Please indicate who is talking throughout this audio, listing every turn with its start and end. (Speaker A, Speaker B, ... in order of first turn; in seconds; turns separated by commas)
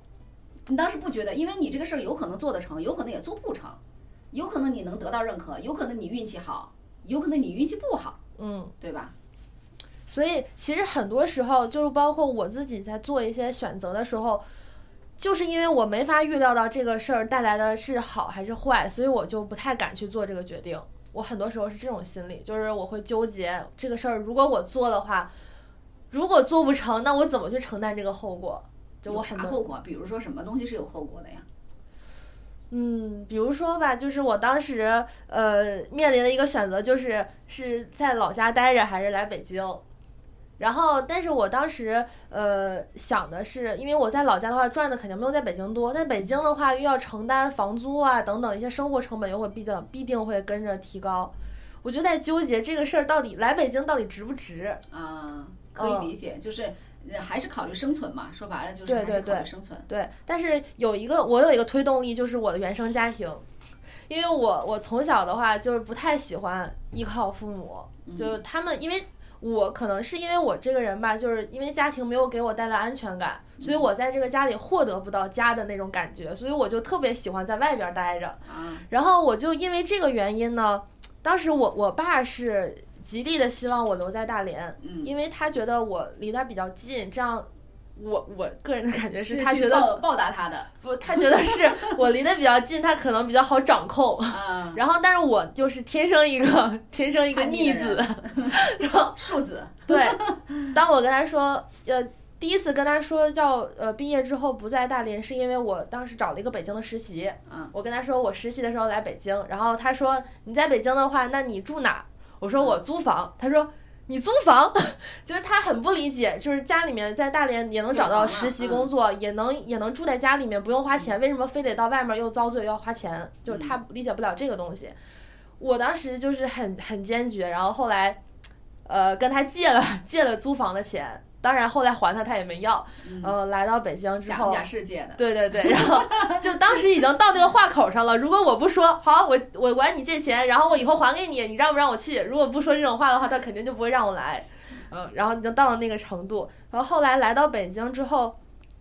Speaker A: 0.7-3.8, Speaker A: 4.3-8.2, Speaker B: 8.4-8.7, Speaker A: 8.8-9.1, Speaker B: 10.1-14.4, Speaker B: 15.2-25.3, Speaker B: 26.1-29.6, Speaker A: 29.1-31.5, Speaker B: 32.7-39.8, Speaker B: 40.6-54.8, Speaker A: 54.9-59.9, Speaker B: 55.8-56.1, Speaker B: 58.9-63.4, Speaker B: 64.1-90.0, Speaker A: 68.0-68.4, Speaker A: 78.5-78.9, Speaker A: 84.8-85.1, Speaker A: 89.2-90.7, Speaker B: 90.8-99.2, Speaker A: 94.3-94.8, Speaker A: 97.3-98.6, Speaker A: 99.2-100.5, Speaker B: 99.9-125.0, Speaker A: 107.5-107.7, Speaker A: 117.9-118.9, Speaker A: 123.5-123.8, Speaker B: 125.6-128.2, Speaker B: 128.8-134.7, Speaker A: 133.0-133.3, Speaker A: 134.3-136.4, Speaker B: 135.2-148.3